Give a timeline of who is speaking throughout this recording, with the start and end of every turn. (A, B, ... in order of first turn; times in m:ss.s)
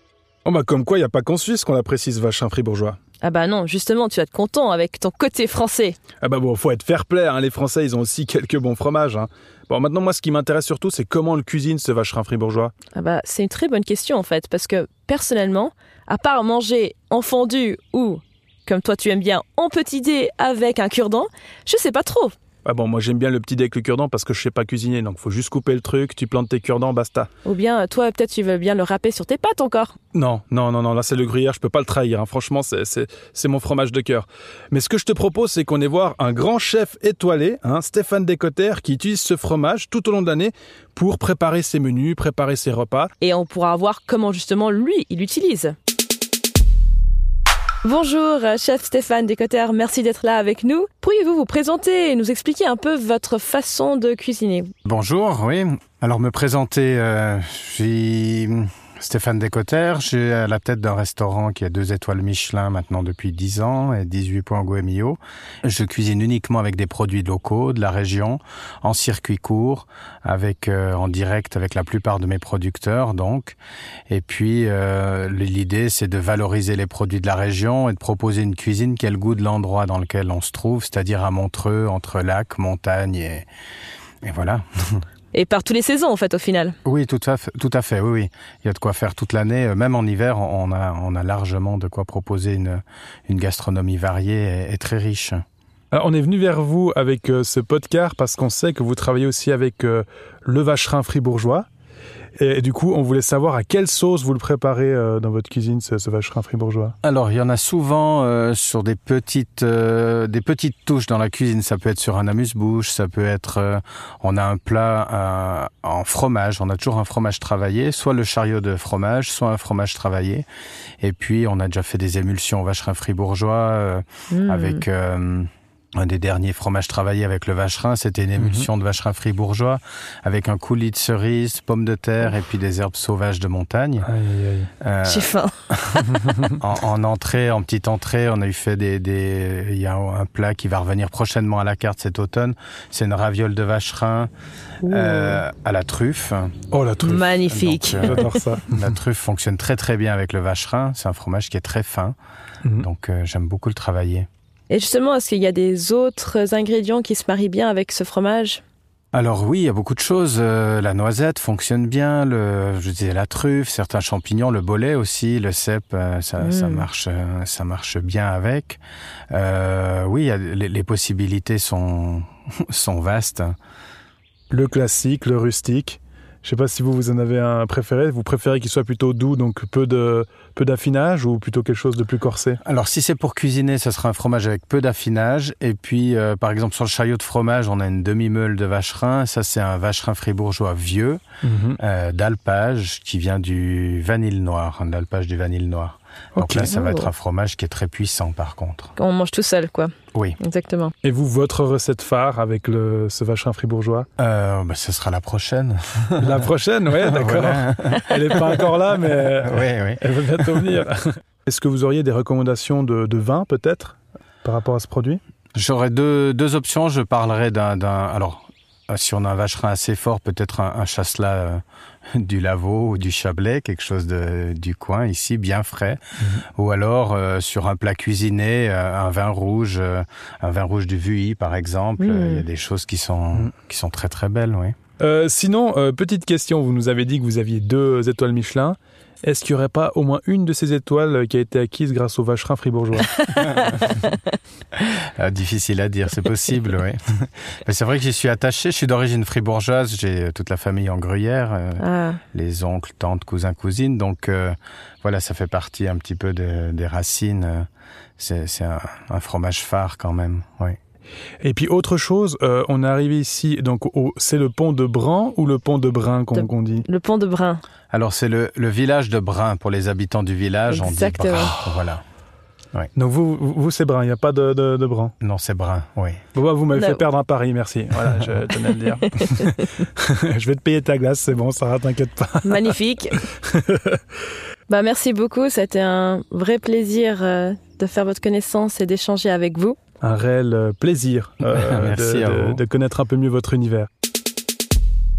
0:00.4-0:03.0 A
0:03.2-0:06.0 B
0:06.2-0:12.7 A
0:13.0-0:22.4 B
0:22.6-0:27.3 A
0:27.4-0:30.0 B
0:30.1-0:43.1 A
0:43.2-0:45.7 B
0:47.8-0:54.7 B
0:54.8-1:13.6 C
1:14.1-1:23.5 C
1:24.2-1:25.0 C
1:25.3-1:26.8 B
1:26.8-1:35.4 C
1:35.9-1:41.7 A
1:42.4-1:47.0 A
1:47.0-2:00.5 C
2:01.0-2:14.1 C
2:04.3-2:04.8 B
2:08.4-2:08.7 A
2:14.0-2:14.7 A
2:14.8-2:16.0 C
2:15.1-2:15.5 B
2:16.0-2:16.5 A
2:16.6-2:24.3 C
2:24.8-2:25.4 B
2:24.9-2:26.6 C
2:26.7-2:27.4 A
2:27.0-2:28.4 B
2:27.5-2:32.2 C
2:28.0-2:28.8 A
2:32.8-2:34.3 C
2:34.7-2:38.6 B
2:39.1-2:48.8 C
2:46.4-2:46.9 B
2:49.3-2:53.6 C
2:54.5-3:02.6 A
3:02.6-3:11.2 C
3:11.4-3:11.8 A
3:11.8-3:18.9 C
3:16.4-3:16.7 A
3:16.7-3:17.1 B
3:19.0-3:20.9 B
3:21.0-3:24.1 A
3:24.2-3:26.3 C
3:26.2-3:35.2 A
3:27.0-3:28.8 C
3:29.4-3:30.0 C
3:35.6-3:41.6 C
3:42.2-3:46.0 C
3:46.6-3:54.8 C
3:52.0-3:52.5 B
3:55.0-4:03.3 A
4:03.3-4:04.1 B
4:05.0-4:07.0 C
4:07.6-4:17.7 C
4:11.8-4:12.2 B
4:18.2-4:20.8 C
4:21.4-4:26.8 A
4:26.3-4:27.6 B
4:27.9-4:32.0 C
4:30.7-4:31.6 B
4:31.4-4:31.8 A
4:33.0-4:35.1 A
4:35.2-4:36.2 C
4:36.3-4:42.7 A
4:36.7-4:37.0 B
4:39.2-4:39.7 B
4:42.4-4:43.2 B
4:43.5-4:44.0 A
4:44.7-4:49.8 B
4:50.0-4:53.9 A
4:51.5-4:52.6 C